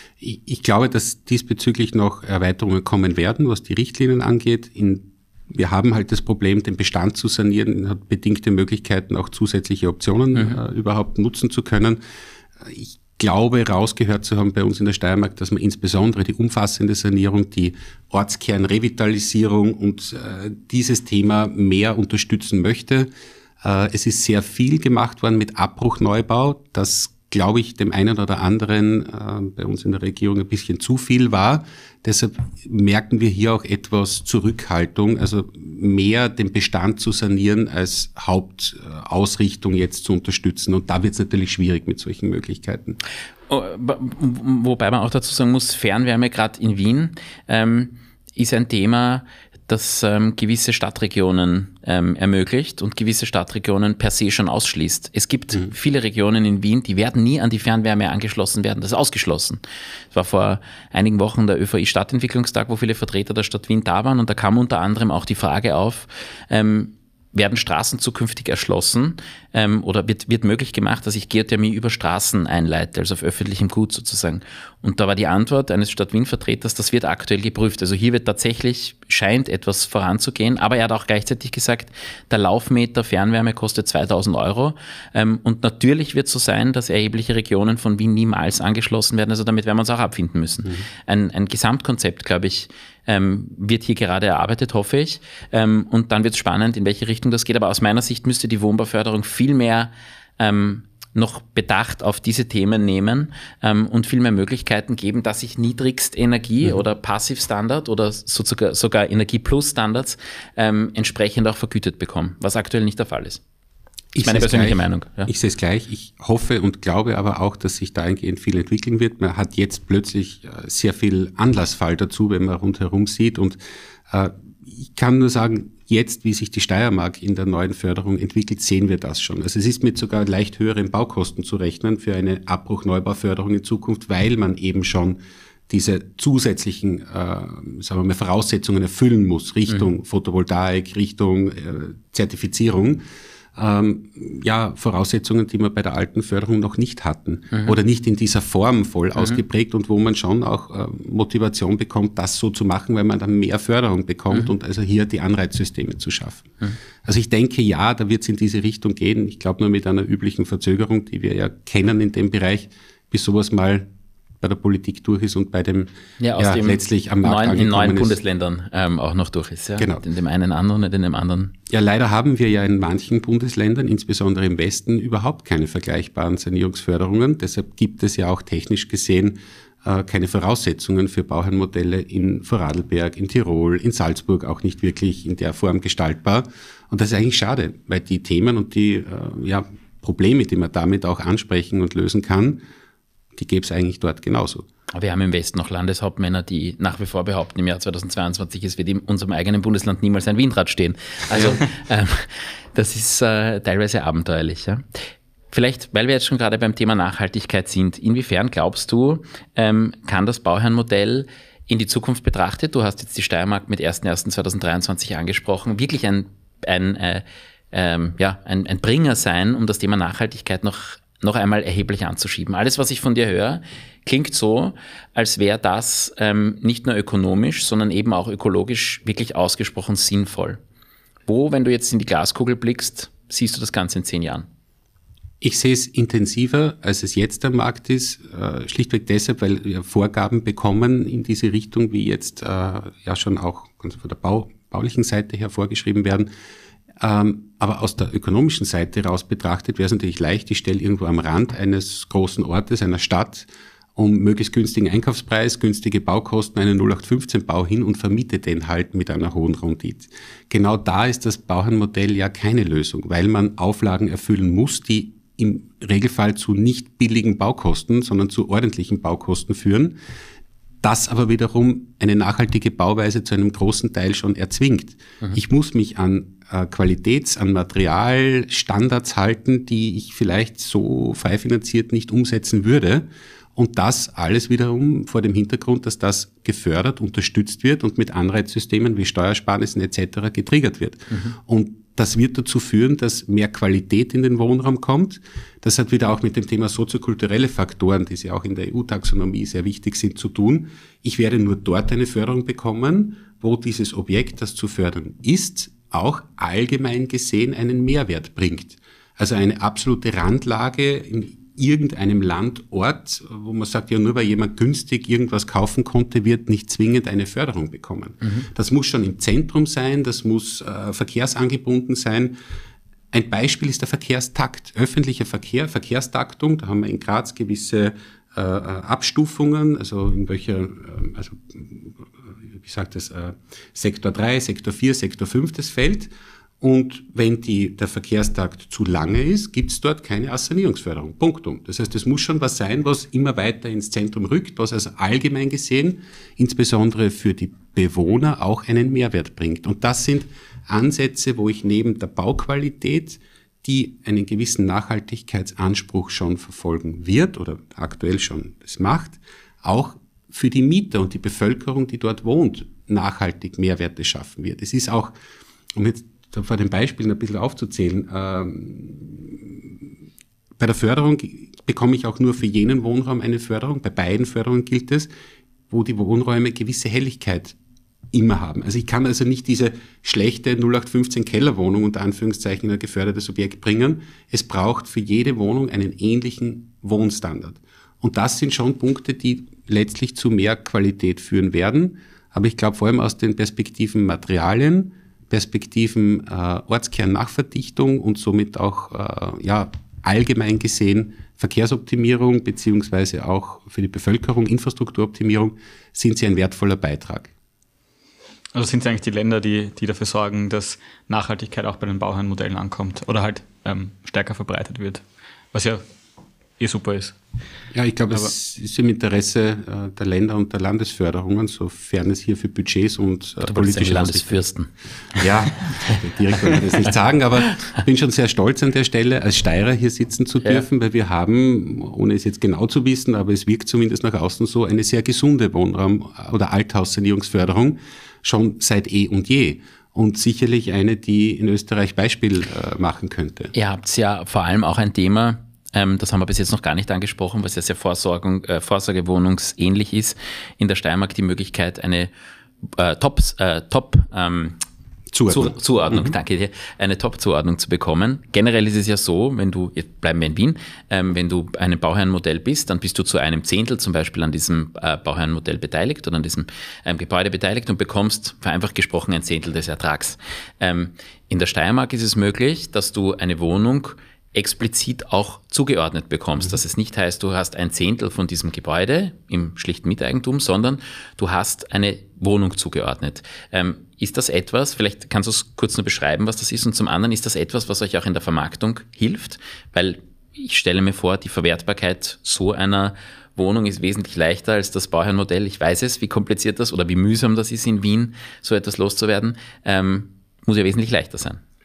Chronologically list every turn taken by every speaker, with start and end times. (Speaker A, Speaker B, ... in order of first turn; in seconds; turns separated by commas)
Speaker A: 0.2-12.0, Speaker A: 12.6-23.1, Speaker A: 23.6-43.0, Speaker B: 43.5-59.6, Speaker B: 60.1-113.4, Speaker A: 114.2-123.6, Speaker B: 114.2-115.3, Speaker A: 124.1-143.0, Speaker A: 143.6-156.5, Speaker A: 157.0-163.9, Speaker A: 164.4-168.2, Speaker B: 166.2-171.5, Speaker A: 169.8-170.0, Speaker A: 171.7-192.6, Speaker A: 193.4-194.7, Speaker B: 194.9-204.8, Speaker A: 201.3-201.6, Speaker B: 205.5-230.6, Speaker B: 231.3-234.5, Speaker A: 235.4-246.3, Speaker A: 247.0-270.0, Speaker A: 270.8-322.4, Speaker A: 323.1-332.0, Speaker A: 332.5-336.1, Speaker A: 336.6-365.1, Speaker A: 365.8-369.7, Speaker A: 370.6-375.1, Speaker A: 375.7-377.6, Speaker A: 378.1-407.3, Speaker C: 408.5-415.8, Speaker C: 416.6-417.2, Speaker A: 417.7-424.4, Speaker B: 423.5-425.2, Speaker A: 425.1-443.5, Speaker B: 443.5-452.1, Speaker B: 452.7-454.6, Speaker A: 455.1-456.1, Speaker B: 455.3-501.4